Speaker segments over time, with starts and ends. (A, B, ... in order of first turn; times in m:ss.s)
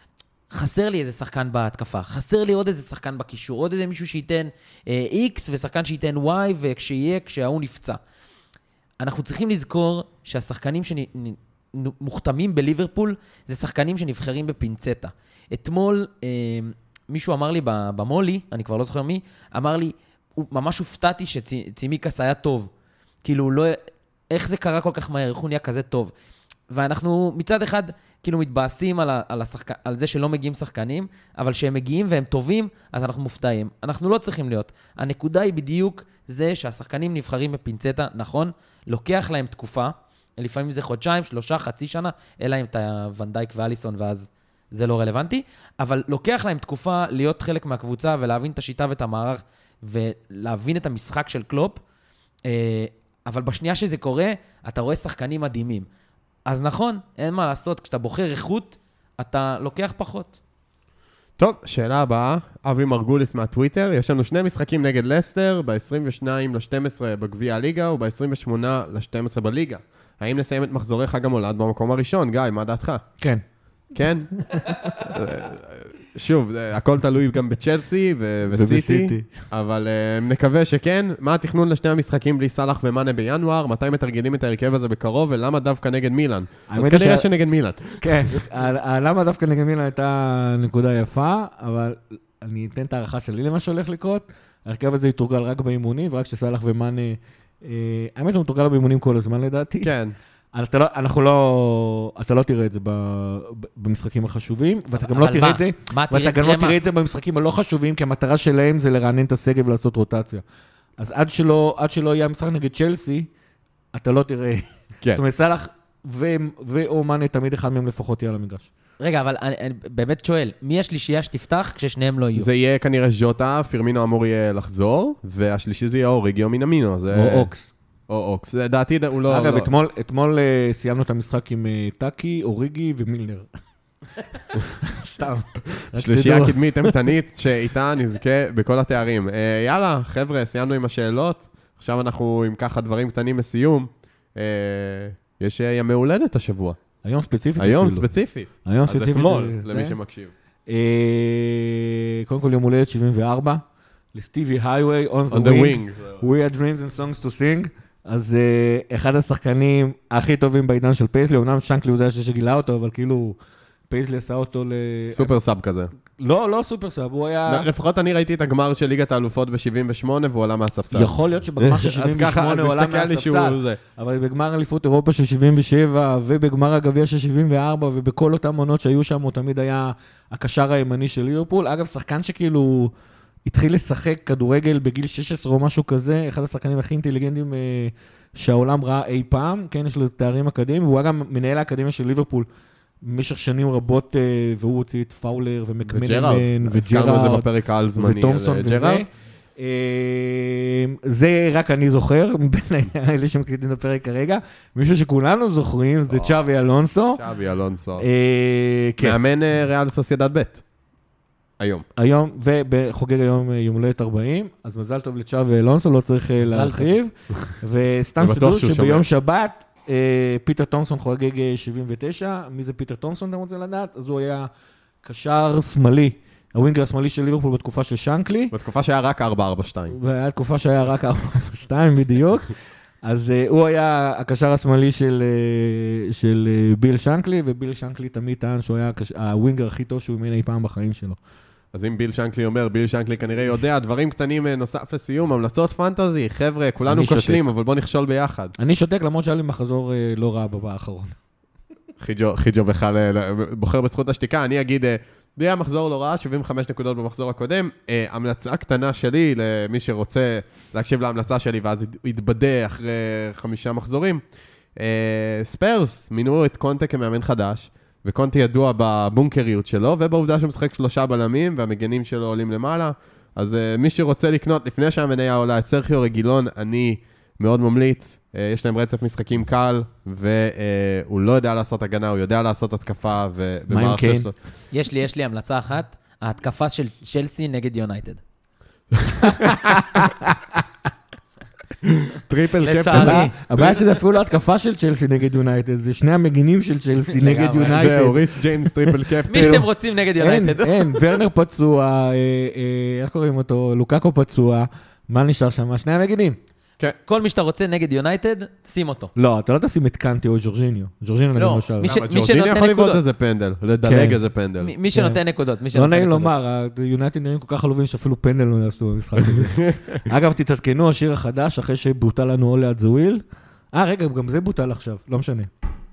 0:00.5-0:08.0 A
0:09.0-0:22.7 A
0:23.2-0:23.8 A
0:24.3-0:26.1 A
0:26.7-0:51.8 A
0:52.5-0:55.9 A
0:56.5-1:00.4 A
1:01.4-1:13.0 B
1:13.9-1:28.5 B
1:14.0-1:14.8 C
1:18.5-1:19.4 C
1:26.7-1:27.3 C
1:28.0-1:39.9 C
1:39.8-1:40.1 B
1:40.5-1:50.4 C
1:45.0-1:46.8 A
1:51.0-1:53.3 C
1:53.9-1:58.7 C
1:59.0-2:02.5 A
2:02.3-2:07.5 B
2:07.1-2:07.7 C
2:08.1-2:09.7 B
2:09.3-2:13.5 C
2:14.2-2:17.0 C
2:16.0-2:26.8 B
2:27.0-2:28.0 C
2:27.6-2:30.3 B
2:28.6-2:30.0 C
2:30.7-2:33.6 C
2:34.1-2:43.4 C
2:35.3-2:36.2 B
2:43.9-2:45.3 C
2:45.1-2:45.9 B
2:46.2-2:47.7 C
2:47.5-2:53.8 B
2:50.9-3:02.9 C
3:03.4-3:12.5 C
3:13.0-3:17.4 C
3:15.8-3:19.0 B
3:18.0-3:27.2 C
3:26.1-3:26.4 B
3:27.1-3:28.1 B
3:28.0-3:29.2 C
3:29.0-3:30.6 B
3:31.6-3:31.8 B
3:32.0-3:44.5 C
3:36.4-3:36.9 A
3:38.2-3:39.0 B
3:45.0-3:48.5 C
3:48.5-3:50.0 B
3:49.9-4:01.2 C
4:01.7-4:08.5 B
4:06.9-4:07.4 C
4:08.6-4:11.1 C
4:12.0-4:24.2 B
4:24.8-4:44.3 B
4:43.7-4:44.3 C
4:44.7-4:48.2 A
4:49.4-4:50.6 C
4:51.8-4:53.8 B
4:52.6-4:53.3 A
4:52.9-4:59.7 C
4:57.1-4:58.0 A
4:57.6-4:59.7 B
4:59.3-5:01.0 A
5:00.2-5:06.4 C
5:07.0-5:09.1 A
5:09.2-5:11.9 C
5:11.4-5:13.0 A
5:11.8-5:14.7 B
5:13.8-5:14.2 C
5:14.6-5:16.3 A
5:14.9-5:25.5 C
5:19.2-5:20.0 B